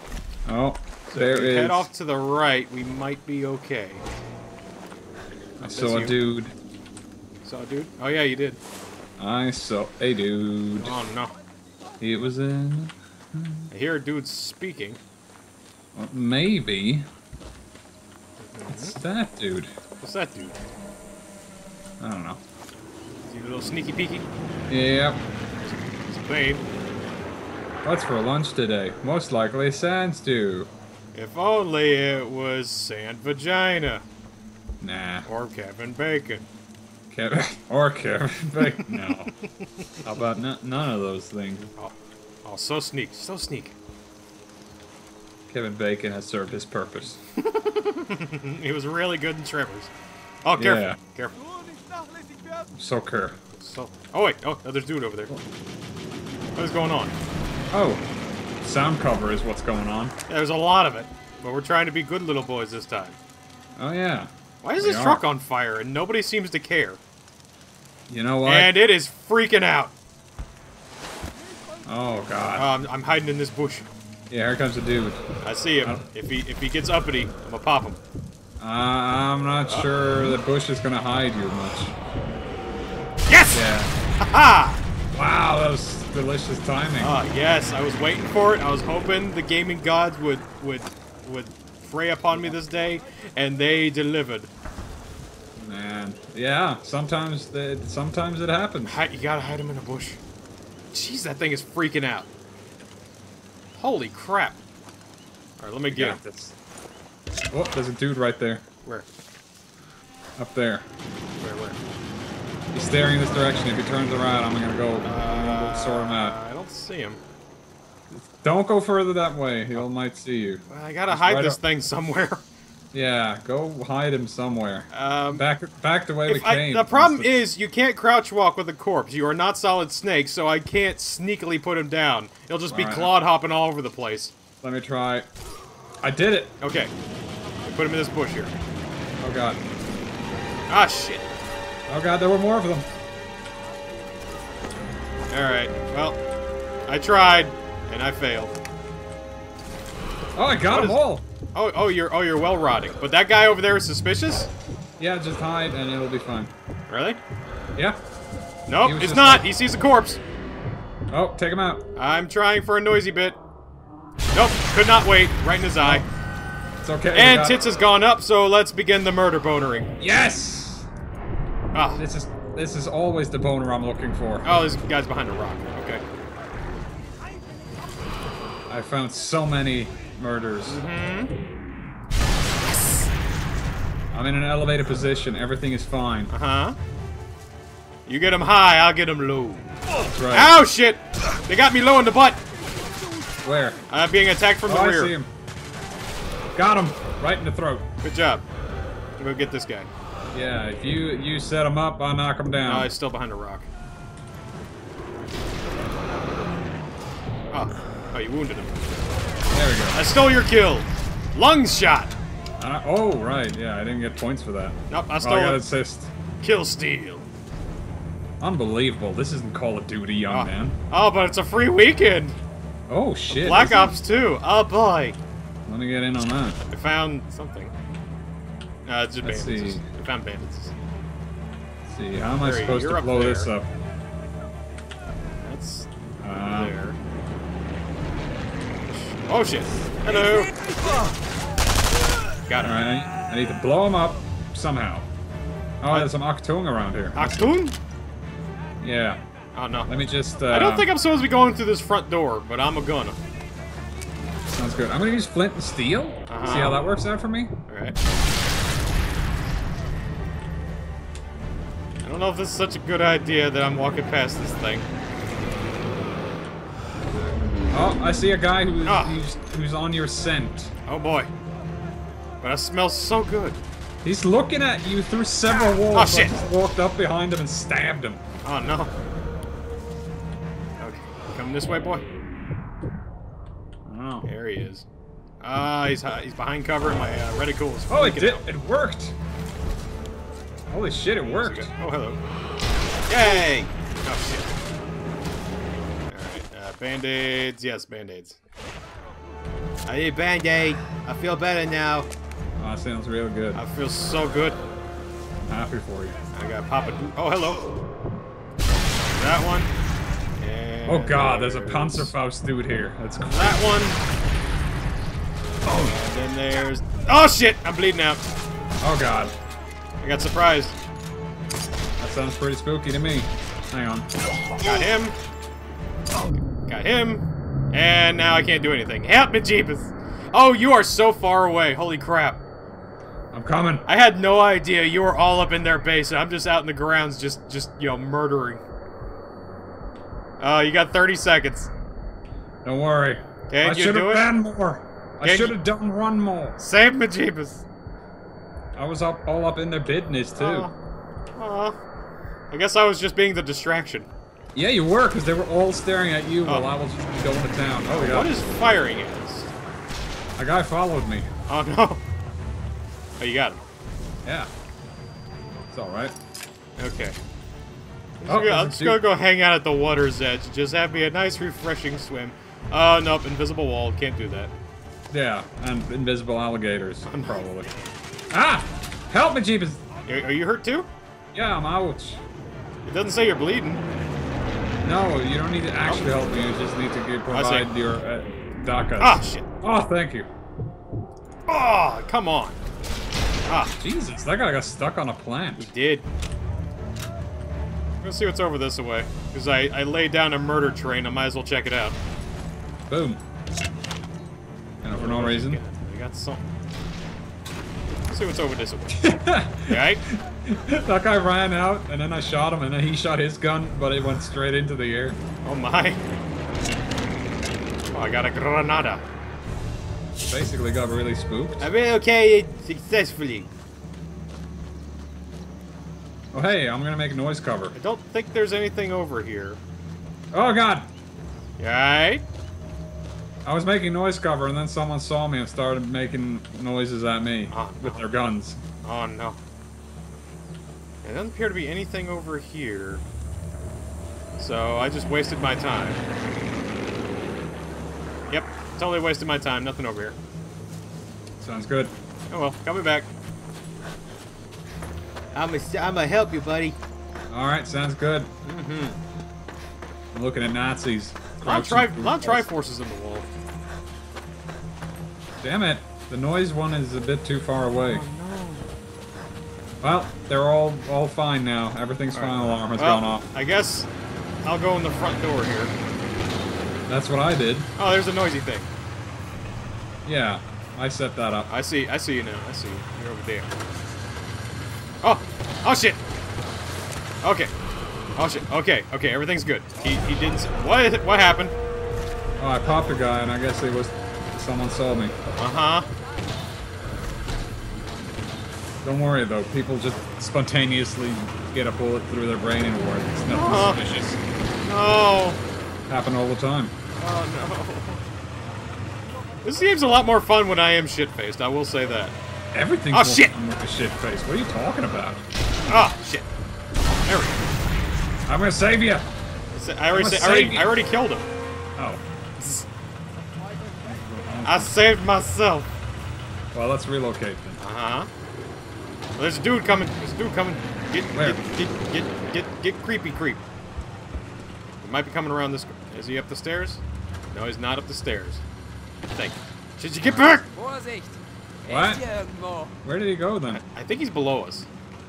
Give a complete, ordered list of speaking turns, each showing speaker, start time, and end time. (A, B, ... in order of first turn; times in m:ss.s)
0:00.4-0:01.9 A
0:01.1-0:04.0 B
0:05.6-0:06.5 A
0:05.6-0:06.2 B
0:07.4-0:08.6 B
0:09.2-0:10.9 A
0:10.8-0:11.3 B
0:12.0-0:13.7 A
0:13.7-0:15.0 B
0:15.9-0:17.0 A
0:18.4-0:19.0 B
0:18.7-0:19.7 A
0:20.0-0:20.6 B
0:22.0-0:22.4 A
0:23.2-0:24.3 B
0:24.7-0:25.2 A
0:25.6-0:26.6 B
0:27.8-0:30.7 A
0:31.1-0:34.0 B
0:34.8-0:35.3 A
0:35.2-0:36.4 B
0:37.1-0:39.3 A
0:38.6-0:40.0 B
0:40.0-0:41.7 A
0:42.4-0:43.7 B
0:45.5-0:47.2 A
0:47.4-0:49.9 B
0:50.4-0:51.4 B
0:50.6-0:51.0 A
0:52.7-0:53.4 A
0:53.5-0:55.3 B
0:56.6-0:57.1 B
0:57.7-0:58.0 A
0:58.6-1:00.1 A
1:00.3-1:03.2 B
1:03.8-1:05.2 A
1:04.6-1:07.0 B
1:08.1-1:08.7 A
1:08.4-1:09.9 B
1:11.8-1:12.7 A
1:12.6-1:13.9 B
1:14.3-1:15.2 A
1:15.4-1:18.0 B
1:18.6-1:21.9 A
1:23.3-1:23.7 B
1:23.5-1:23.9 A
1:24.2-1:24.8 B
1:25.1-1:27.1 A
1:27.0-1:34.5 B
1:35.6-1:39.0 A
1:38.8-1:40.2 B
1:40.9-1:42.3 B
1:43.7-1:44.6 B
1:45.6-1:46.2 B
1:45.9-1:46.5 A
1:47.5-1:48.6 A
1:50.4-1:50.8 A
1:51.4-1:51.8 B
1:52.7-1:56.4 A
1:55.0-1:57.2 B
1:58.1-2:01.6 A
2:00.7-2:02.4 B
2:02.9-2:07.4 A
2:04.9-2:05.4 B
2:06.3-2:14.3 B
2:12.7-2:13.1 A
2:14.6-2:15.3 A
2:16.0-2:16.5 A
2:16.6-2:16.9 B
2:17.6-2:18.5 B
2:19.2-2:19.6 A
2:20.7-2:21.3 B
2:21.9-2:22.9 A
2:25.3-2:26.2 B
2:26.9-2:28.5 B
2:30.3-2:31.2 A
2:30.7-2:31.0 B
2:31.5-2:34.5 B
2:35.0-2:36.5 A
2:36.9-2:37.2 B
2:38.7-2:40.2 B
2:38.8-2:39.4 A
2:41.1-2:41.8 A
2:42.0-2:43.4 B
2:44.3-2:46.0 B
2:46.8-2:47.6 A
2:47.1-2:49.9 B
2:50.0-2:50.9 A
2:51.7-2:52.0 B
2:52.0-2:54.5 A
2:54.4-2:56.0 B
2:58.7-3:00.8 A
3:00.7-3:01.3 B
3:04.1-3:06.3 A
3:06.3-3:06.8 B
3:08.0-3:09.7 B
3:10.0-3:10.6 A
3:10.3-3:12.4 B
3:13.4-3:13.8 A
3:13.9-3:15.1 B
3:14.7-3:15.3 A
3:16.5-3:17.8 A
3:18.0-3:18.4 B
3:19.2-3:19.9 B
3:20.3-3:22.9 A
3:22.6-3:23.7 B
3:27.5-3:29.0 B
3:29.5-3:30.0 A
3:29.9-3:32.1 B
3:32.6-3:36.1 A
3:34.9-3:35.6 B
3:36.4-3:37.2 B
3:38.4-3:40.8 A
3:40.3-3:42.4 B
3:42.9-3:43.9 A
3:43.4-3:45.2 B
3:45.6-3:46.6 A
3:46.7-3:47.7 B
3:48.8-3:50.7 B
3:49.2-3:49.8 A
3:51.8-3:53.7 A
3:52.4-3:53.5 B
3:55.4-3:55.9 B
3:56.2-3:56.7 A
3:56.4-3:57.0 B
3:58.9-4:00.6 B
4:02.5-4:02.8 B
4:02.6-4:05.1 A
4:05.8-4:07.5 A
4:07.1-4:07.8 B
4:08.8-4:09.2 A
4:09.5-4:09.9 B
4:09.9-4:10.9 A
4:10.5-4:13.2 B
4:14.4-4:17.5 A
4:16.3-4:16.8 B
4:17.7-4:18.0 B
4:22.0-4:24.9 B
4:27.7-4:30.7 A
4:28.8-4:29.2 B
4:30.9-4:31.3 B
4:32.4-4:33.6 B
4:34.0-4:38.2 A
4:35.9-4:36.4 B
4:38.4-4:38.9 B
4:40.8-4:42.0 B
4:43.8-4:44.3 A
4:44.2-4:44.8 B
4:45.4-4:48.4 B
4:47.9-4:49.1 A
4:50.7-4:51.7 A
4:51.2-4:52.2 B
4:53.1-4:54.5 B
4:56.1-4:58.4 B
4:59.8-5:02.1 B
5:02.6-5:03.6 A
5:03.5-5:04.6 B
5:05.4-5:06.2 A
5:06.3-5:07.7 B
5:09.1-5:09.7 B
5:10.4-5:12.1 B
5:10.9-5:13.7 A
5:13.1-5:14.0 B
5:15.6-5:18.2 B
5:18.8-5:19.3 A
5:20.0-5:20.8 B
5:22.0-5:24.1 A
5:24.6-5:25.2 B
5:26.2-5:32.4 B
5:33.3-5:33.8 A
5:33.8-5:38.6 B
5:40.4-5:41.7 B
5:42.6-5:46.6 A
5:43.5-5:44.3 B
5:45.2-5:45.6 B
5:46.6-5:47.6 B
5:48.7-5:50.7 A
5:50.4-5:50.7 B
5:51.3-5:51.8 B
5:52.5-5:54.1 B
5:54.5-5:58.4 A
5:56.4-5:56.7 B
5:57.9-5:59.5 B
6:00.4-6:01.3 A
6:01.5-6:02.0 B
6:03.2-6:03.6 B
6:05.7-6:06.1 A
6:06.8-6:07.2 B
6:08.2-6:14.5 B
6:08.3-6:09.0 A
6:15.1-6:17.7 A
6:18.3-6:19.8 A
6:20.0-6:20.9 B
6:21.3-6:22.2 A
6:22.8-6:23.8 B
6:24.8-6:30.3 A
6:27.3-6:27.7 B
6:29.0-6:29.5 B
6:31.5-6:32.6 B
6:33.5-6:33.7 B
6:33.8-6:35.7 A
6:35.6-6:36.1 B
6:38.0-6:42.0 B
6:42.9-6:43.2 A
6:44.8-6:45.6 A
6:44.9-6:46.4 B
6:48.1-6:49.1 B
6:49.0-6:55.2 A
6:49.7-6:50.0 B
6:55.4-6:56.0 B
6:57.9-6:59.0 B
7:00.2-7:01.6 A
7:01.6-7:03.5 B
7:06.3-7:07.7 A
7:07.7-7:09.6 B
7:10.3-7:10.9 A
7:11.6-7:12.2 B
7:13.4-7:18.6 A
7:17.5-7:18.0 B
7:18.8-7:19.4 B
7:21.0-7:23.0 B
7:24.4-7:26.0 B
7:28.3-7:30.2 B
7:31.4-7:31.9 A
7:32.3-7:33.1 B
7:35.3-7:36.8 B
7:37.3-7:38.3 A
7:38.4-7:39.0 B
7:40.1-7:42.4 A
7:41.4-7:43.3 B
7:45.4-7:48.0 A
7:47.9-7:48.7 B
7:49.8-7:53.2 A
7:52.1-7:53.9 B
7:54.4-7:55.7 B
7:56.9-7:57.7 A
7:57.8-7:58.7 B
8:00.0-8:01.5 A
8:01.5-8:03.5 B
8:05.0-8:06.0 B
8:07.2-8:07.5 B
8:08.2-8:11.5 B
8:12.4-8:15.1 A
8:15.4-8:15.9 B
8:18.8-8:24.2 A
8:23.3-8:23.8 B
8:24.6-8:25.4 B
8:25.9-8:26.7 A
8:27.0-8:28.0 B
8:29.4-8:32.2 B
8:32.5-8:35.2 A
8:32.9-8:33.3 B
8:35.7-8:36.3 B
8:37.0-8:37.4 B
8:38.3-8:39.1 A
8:39.5-8:41.3 B
8:39.9-8:40.7 A
8:42.4-8:42.6 B
8:43.8-8:44.7 A
8:44.4-8:45.7 B
8:46.5-8:47.6 A
8:47.6-8:48.1 B
8:49.2-8:53.4 B
8:51.1-8:51.4 A
8:54.8-8:58.4 B
8:59.1-9:00.5 B
9:00.5-9:02.7 C
9:01.7-9:02.0 A
9:02.8-9:03.6 A
9:03.5-9:04.7 B